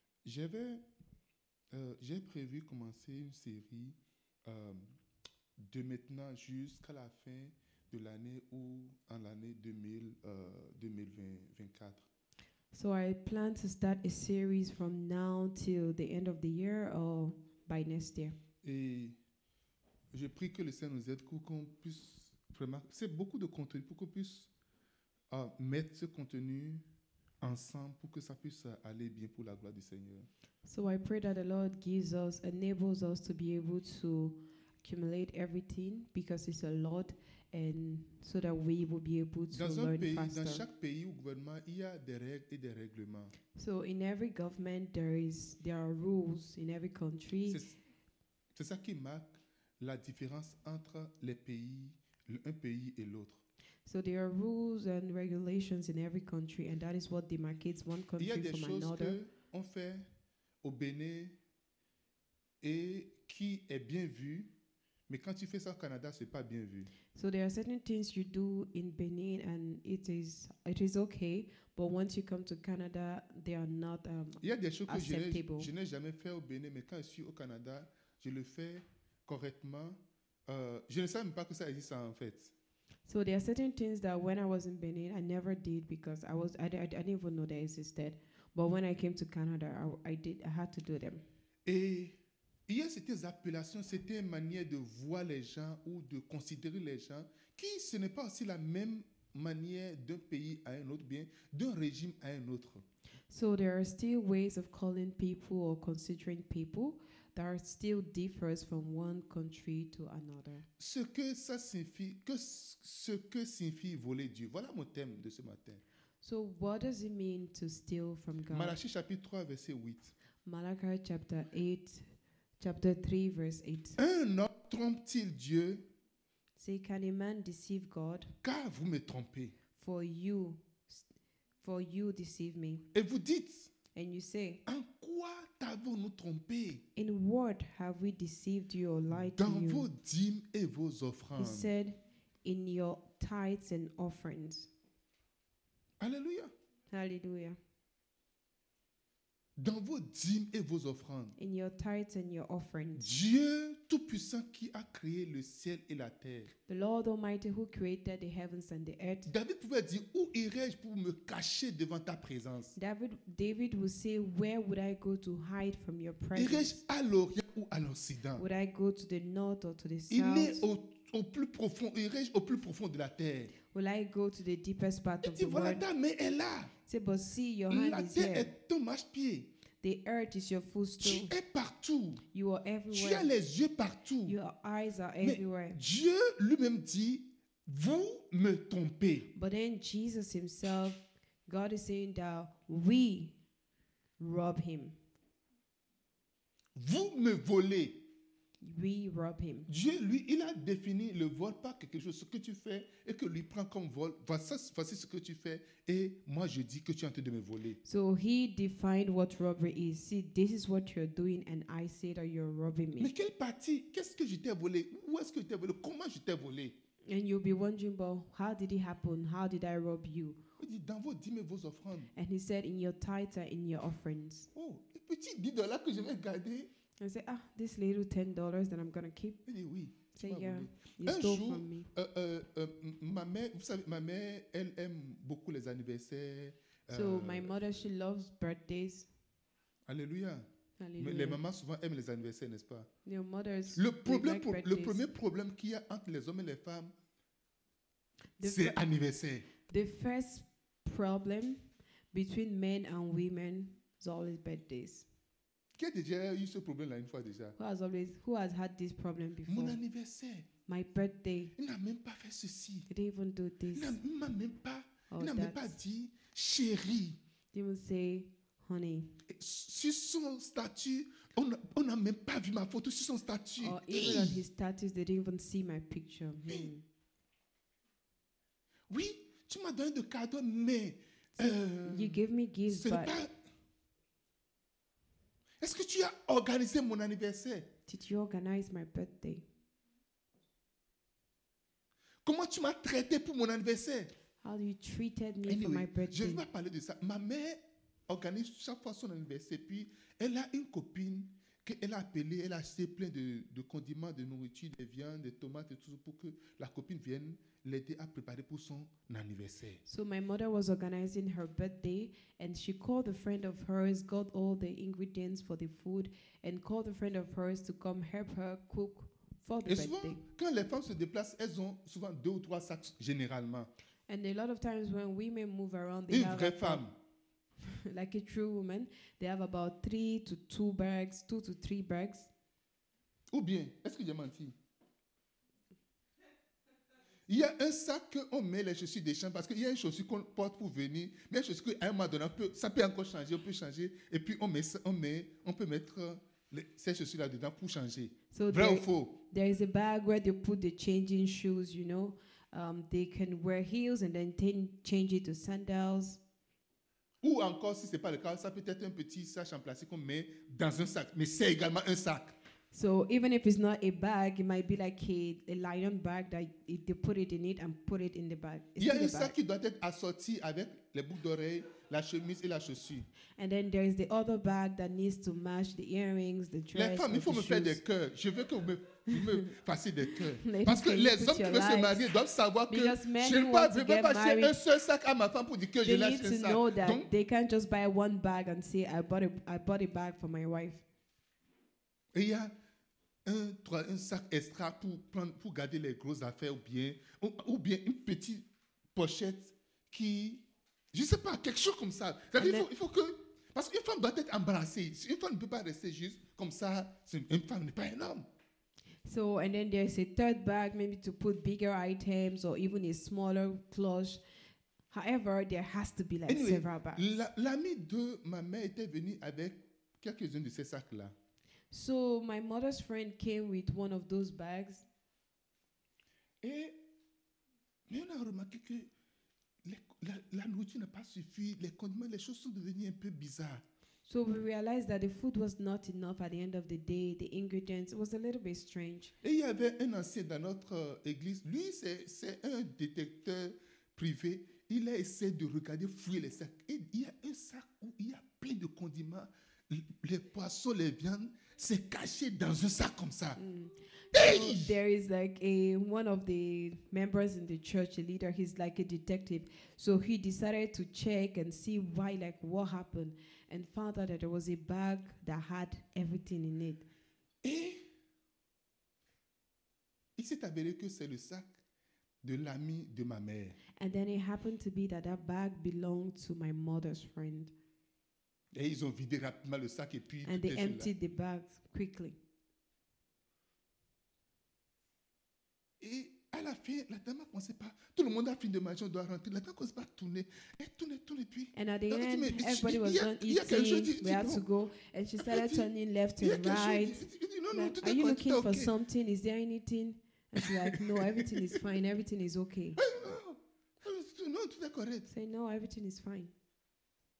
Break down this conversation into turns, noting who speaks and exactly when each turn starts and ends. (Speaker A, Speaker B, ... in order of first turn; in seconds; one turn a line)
Speaker A: 0.3-0.8
Speaker A: 1.7-5.0
Speaker A: 5.6-12.0
Speaker B: 12.7-18.4
Speaker A: 18.6-19.2
Speaker A: 20.1-24.5
Speaker A: 25.3-26.8
Speaker A: 27.4-30.3
Speaker B: 30.6-40.6
Speaker A: 39.5-43.3
Speaker B: 43.5-47.6
Speaker A: 47.5-47.8
Speaker A: 48.5-53.4
Speaker B: 53.9-59.2
Speaker A: 58.2-60.1
Speaker A: 60.6-61.4
Speaker A: 62.6-64.5
Speaker A: 65.1-66.9
Speaker B: 67.1-75.7
Speaker A: 74.4-82.5
Speaker B: 83.1-91.2
Speaker A: 91.7-92.2
Speaker A: 92.7-102.8
Speaker B: 103.3-110.7
Speaker A: 110.8-115.8
Speaker B: 116.2-118.7
Speaker A: 118.5-120.1
Speaker B: 120.5-122.0
Speaker B: 122.6-124.0
Speaker A: 124.0-125.8
Speaker B: 126.6-128.3
Speaker A: 128.4-129.5
Speaker B: 129.8-131.0
Speaker B: 131.6-132.8
Speaker A: 132.9-133.7
Speaker B: 133.9-134.6
Speaker A: 134.7-136.8
Speaker B: 137.0-139.9
Speaker A: 139.1-141.7
Speaker B: 141.4-144.7
Speaker A: 146.0-146.5
Speaker B: 146.9-147.6
Speaker A: 149.6-151.3
Speaker B: 151.4-153.1
Speaker A: 153.0-156.5
Speaker B: 156.7-159.3
Speaker A: 159.3-162.7
Speaker B: 162.8-166.8
Speaker A: 166.3-168.4
Speaker B: 168.4-170.6
Speaker A: 170.1-173.5
Speaker B: 173.6-175.8
Speaker A: 175.2-176.7
Speaker B: 176.9-178.5
Speaker A: 177.7-179.5
Speaker B: 179.8-181.3
Speaker A: 181.0-182.2
Speaker B: 182.3-183.3
Speaker A: 182.9-184.4
Speaker B: 184.2-185.8
Speaker A: 185.2-189.3
Speaker B: 189.3-193.3
Speaker B: 194.2-195.0
Speaker A: 196.8-198.0
Speaker B: 198.6-199.7
Speaker A: 199.7-207.8
Speaker B: 207.8-213.1
Speaker A: 213.0-216.7
Speaker B: 217.1-220.4
Speaker A: 220.6-222.1
Speaker B: 222.1-224.5
Speaker A: 224.6-226.7
Speaker B: 227.0-229.4
Speaker A: 229.5-237.6
Speaker B: 230.2-231.9
Speaker B: 236.9-239.1
Speaker A: 239.9-240.5
Speaker B: 240.8-241.4
Speaker A: 241.0-242.9
Speaker B: 243.1-245.0
Speaker A: 243.7-246.9
Speaker B: 248.4-248.8
Speaker A: 248.4-249.5
Speaker B: 249.7-255.1
Speaker A: 255.8-257.6
Speaker B: 257.6-259.8
Speaker A: 259.5-260.5
Speaker B: 260.7-261.5
Speaker A: 261.6-262.9
Speaker B: 262.9-264.0
Speaker A: 263.7-267.2
Speaker B: 265.1-265.8
Speaker B: 267.5-269.1
Speaker A: 269.3-274.4
Speaker B: 273.6-276.8
Speaker A: 278.9-283.3
Speaker B: 281.4-283.1
Speaker A: 285.6-287.7
Speaker B: 287.9-289.4
Speaker A: 292.2-294.1
Speaker B: 294.4-296.4
Speaker A: 295.5-309.8
Speaker B: 309.9-320.2
Speaker A: 319.7-323.7
Speaker B: 324.1-326.8
Speaker A: 326.1-326.9
Speaker B: 327.7-332.3
Speaker A: 333.3-334.6
Speaker A: 337.3-349.1
Speaker B: 348.3-356.2
Speaker A: 357.2-362.4
Speaker B: 362.7-369.4
Speaker A: 368.8-373.1
Speaker B: 373.4-377.8
Speaker A: 376.7-387.1
Speaker B: 380.1-382.2
Speaker B: 382.7-384.6
Speaker B: 385.8-390.8
Speaker A: 392.1-392.5
Speaker A: 393.2-398.4
Speaker A: 398.9-408.3
Speaker B: 402.4-402.7
Speaker B: 409.1-414.2
Speaker B: 414.9-417.1
Speaker A: 416.3-421.1
Speaker B: 421.7-424.9
Speaker A: 426.4-426.8
Speaker A: 427.9-428.9
Speaker A: 429.6-433.6
Speaker B: 434.1-439.1
Speaker A: 439.2-453.4
Speaker B: 453.4-466.9
Speaker A: 454.1-454.8
Speaker A: 467.4-467.8
Speaker A: 470.2-471.5
Speaker A: 472.2-473.6
Speaker B: 473.8-477.5
Speaker A: 478.5-480.9
Speaker B: 480.3-482.2
Speaker A: 485.8-494.4
Speaker B: 491.5-502.8
Speaker A: 495.2-495.7
Speaker A: 496.2-498.7
Speaker A: 500.4-501.6
Speaker A: 502.8-505.1
Speaker B: 505.1-506.3